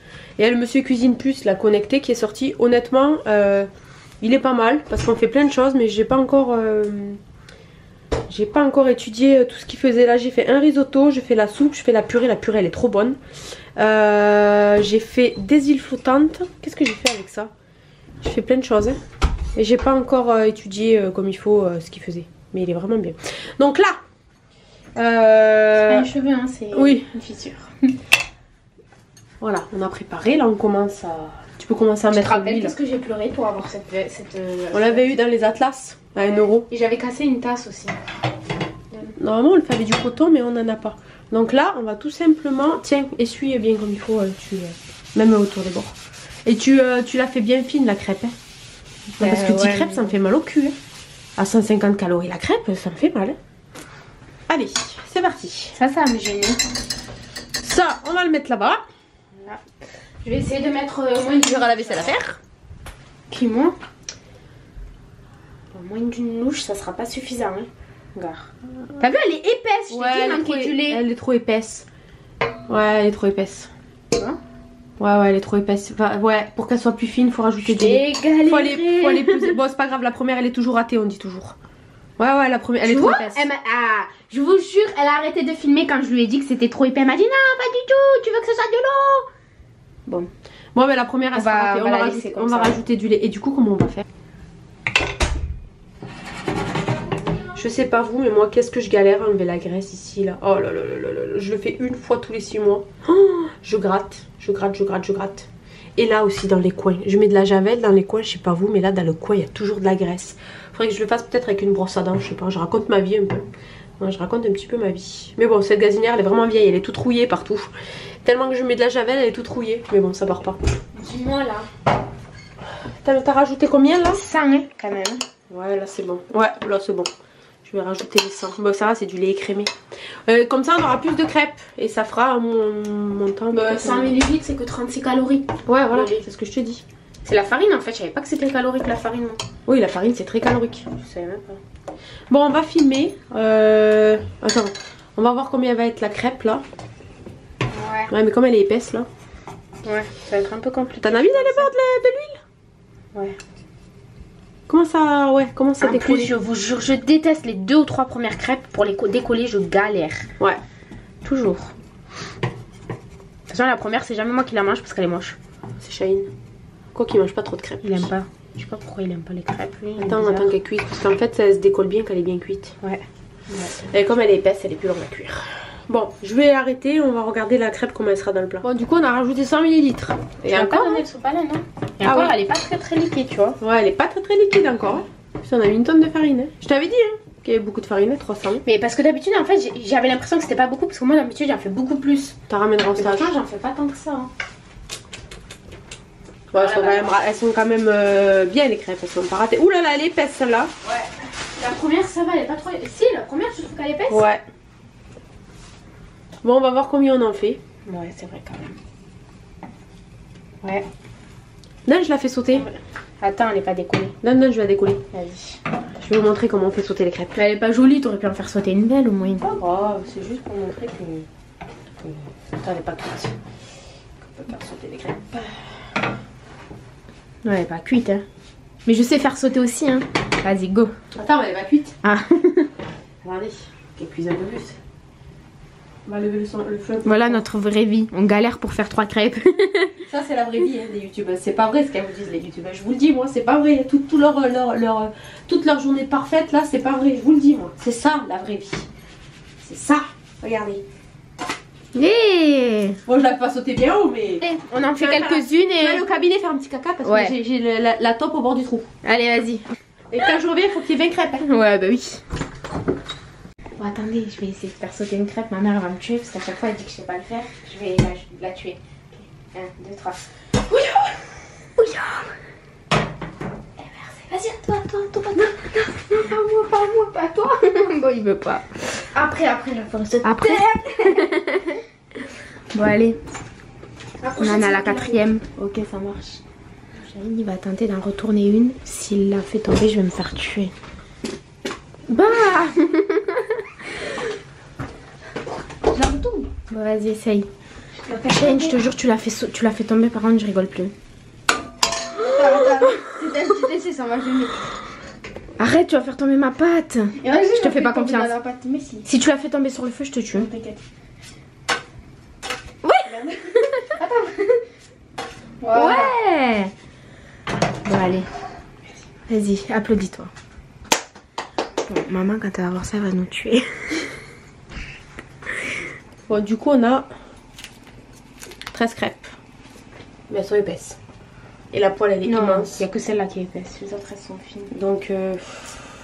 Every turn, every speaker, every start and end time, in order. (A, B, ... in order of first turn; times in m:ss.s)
0:00.4-0:03.7 A
0:04.2-0:07.2 A
0:08.3-0:13.2 A
0:13.8-0:17.5 A
0:18.2-0:19.0 A
0:19.6-0:24.0 A
0:25.0-0:26.1 A
0:25.9-0:27.7 B
0:26.7-0:27.1 A
0:29.4-0:32.7 A
0:32.1-0:35.1 B
0:34.7-0:36.7 A
0:36.7-0:38.0 B
0:39.2-0:45.9 A
0:46.4-0:48.3 A
0:49.2-0:50.1 B
0:49.2-0:50.8 A
0:51.4-0:53.4 A
0:54.5-0:55.8 A
0:55.7-0:56.6 B
0:57.6-0:58.8 A
0:59.4-0:59.6 B
1:00.2-1:02.2 B
1:01.3-1:02.4 A
1:03.3-1:03.8 B
1:05.7-1:11.0 B
1:09.9-1:11.9 A
1:12.7-1:13.7 A
1:14.1-1:14.4 B
1:15.0-1:21.6 A
1:17.6-1:19.6 B
1:22.2-1:23.5 A
1:22.8-1:29.2 B
1:30.7-1:34.0 A
1:31.3-1:32.8 B
1:37.5-1:53.5 A
1:54.0-1:57.7 A
1:58.2-2:00.6 A
2:00.9-2:01.7 B
2:03.0-2:04.2 A
2:04.1-2:05.2 B
2:05.5-2:07.1 A
2:07.6-2:09.7 A
2:10.2-2:14.2 A
2:13.5-2:16.2 B
2:15.6-2:16.8 A
2:17.2-2:19.4 B
2:19.6-2:20.9 A
2:21.0-2:21.6 B
2:22.3-2:26.6 A
2:27.7-2:28.1 B
2:28.1-2:29.1 A
2:29.8-2:31.7 B
2:31.0-2:32.4 A
2:34.7-2:36.3 A
2:35.8-2:40.3 B
2:41.2-2:41.7 B
2:43.5-2:45.4 B
2:45.8-2:46.3 A
2:46.9-2:48.1 A
2:47.8-2:50.5 B
2:50.0-2:52.7 A
2:52.8-2:53.9 B
2:53.9-3:01.0 A
3:00.5-3:03.6 B
3:02.0-3:02.3 A
3:03.6-3:08.6 A
3:08.6-3:12.3 B
3:12.5-3:13.3 A
3:12.9-3:14.3 B
3:16.5-3:20.7 A
3:16.5-3:17.1 B
3:20.8-3:24.2 B
3:24.1-3:24.4 A
3:26.4-3:27.6 A
3:27.8-3:28.7 B
3:31.8-3:32.7 A
3:33.2-3:34.1 B
3:34.2-3:35.0 A
3:35.1-3:35.6 B
3:36.0-3:37.4 A
3:37.3-3:39.4 B
3:39.4-3:41.3 A
3:42.0-3:43.3 A
3:44.2-3:45.9 A
3:47.4-3:48.2 B
3:48.8-3:50.9 B
3:51.1-3:52.0 A
3:52.0-3:52.7 B
3:53.2-3:54.8 A
3:56.0-3:57.4 A
3:57.0-4:00.0 B
4:00.0-4:08.9 A
4:09.6-4:10.8 A
4:11.9-4:13.0 B
4:13.1-4:14.5 A
4:14.4-4:16.1 B
4:15.0-4:18.9 A
4:17.0-4:17.3 B
4:19.0-4:19.7 B
4:20.1-4:21.4 A
4:21.4-4:22.2 B
4:23.8-4:30.3 B
4:31.8-4:32.0 A
4:33.8-4:41.8 B
4:40.2-4:40.7 A
4:40.7-4:41.0 C
4:42.7-4:43.2 B
4:44.2-4:45.7 A
4:44.4-4:46.4 B
4:47.0-4:50.7 B
4:52.1-4:53.5 B
4:55.9-4:56.4 A
4:56.6-4:57.5 B
4:58.0-4:58.4 C
4:58.3-5:00.9 B
5:02.3-5:04.6 C
5:02.4-5:03.8 B
5:05.6-5:08.3 B
5:07.2-5:09.1 C
5:09.0-5:10.5 B
5:10.4-5:10.8 C
5:12.8-5:13.9 B
5:13.9-5:14.6 C
5:15.6-5:16.1 C
5:15.7-5:16.7 B
5:17.8-5:18.3 B
5:19.3-5:20.3 B
5:21.8-5:24.1 B
5:26.3-5:27.1 A
5:28.7-5:29.3 A
5:30.3-5:31.0 A
5:31.7-5:32.8 A
5:32.2-5:34.7 B
5:34.7-5:35.7 A